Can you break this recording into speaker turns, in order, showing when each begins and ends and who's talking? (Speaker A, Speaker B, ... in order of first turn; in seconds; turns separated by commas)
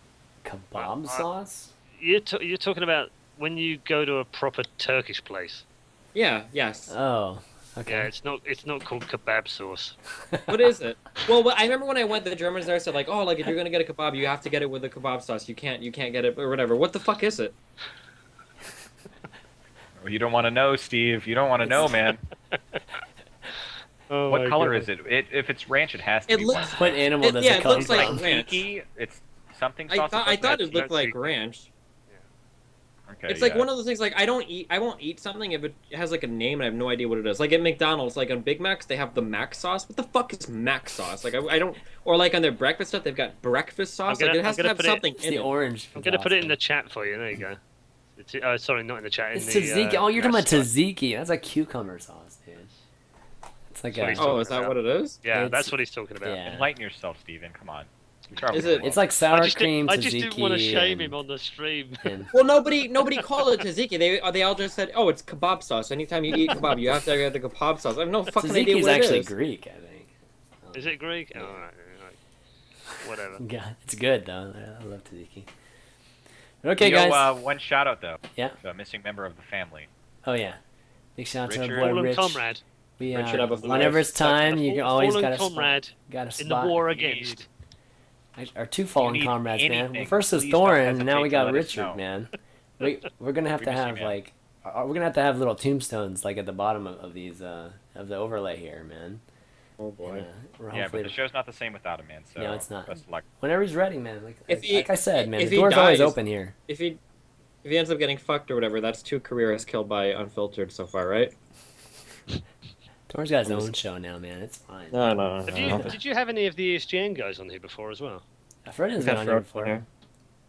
Speaker A: 0.4-1.7, Speaker B: 0.8-1.2, Speaker B: 2.0-5.6, Speaker C: 6.1-6.9, Speaker A: 6.9-8.1, Speaker B: 7.8-10.0, Speaker A: 10.2-10.7, Speaker C: 10.5-17.6, Speaker D: 20.0-22.2, Speaker B: 24.1-24.9, Speaker D: 24.3-26.9, Speaker C: 26.3-28.6, Speaker A: 26.8-28.2, Speaker D: 27.6-30.9, Speaker C: 29.9-31.7, Speaker B: 30.5-31.2, Speaker D: 33.1-33.7, Speaker C: 33.3-45.5, Speaker B: 44.1-45.0, Speaker A: 45.2-46.5, Speaker B: 46.0-47.6, Speaker B: 48.2-50.7, Speaker A: 49.3-52.7, Speaker A: 53.7-54.4, Speaker B: 53.9-56.4, Speaker C: 54.1-55.2, Speaker A: 55.3-56.7, Speaker D: 56.5-58.9, Speaker C: 58.5-59.0, Speaker A: 58.8-61.1, Speaker B: 59.3-62.3, Speaker A: 62.0-62.3, Speaker C: 62.3-69.3, Speaker B: 63.1-63.6, Speaker A: 68.4-71.6, Speaker B: 70.7-72.2, Speaker A: 72.9-75.5, Speaker B: 73.0-73.4, Speaker A: 76.6-77.3, Speaker D: 76.8-79.9, Speaker A: 80.2-80.6, Speaker A: 81.2-82.4, Speaker D: 81.5-82.0, Speaker B: 81.8-82.6, Speaker A: 83.0-86.8, Speaker C: 83.0-84.1, Speaker B: 83.6-87.5, Speaker D: 86.9-87.4, Speaker A: 88.3-99.2, Speaker D: 89.0-92.0, Speaker D: 93.6-94.2, Speaker C: 99.8-100.3, Speaker A: 100.0-101.1, Speaker D: 100.7-103.2, Speaker A: 102.4-106.5, Speaker C: 104.5-107.0, Speaker C: 107.6-111.3, Speaker A: 113.1-115.0, Speaker C: 113.5-113.7, Speaker C: 114.9-116.0, Speaker B: 115.5-118.2, Speaker A: 115.6-116.0, Speaker A: 118.6-119.8, Speaker C: 119.0-119.8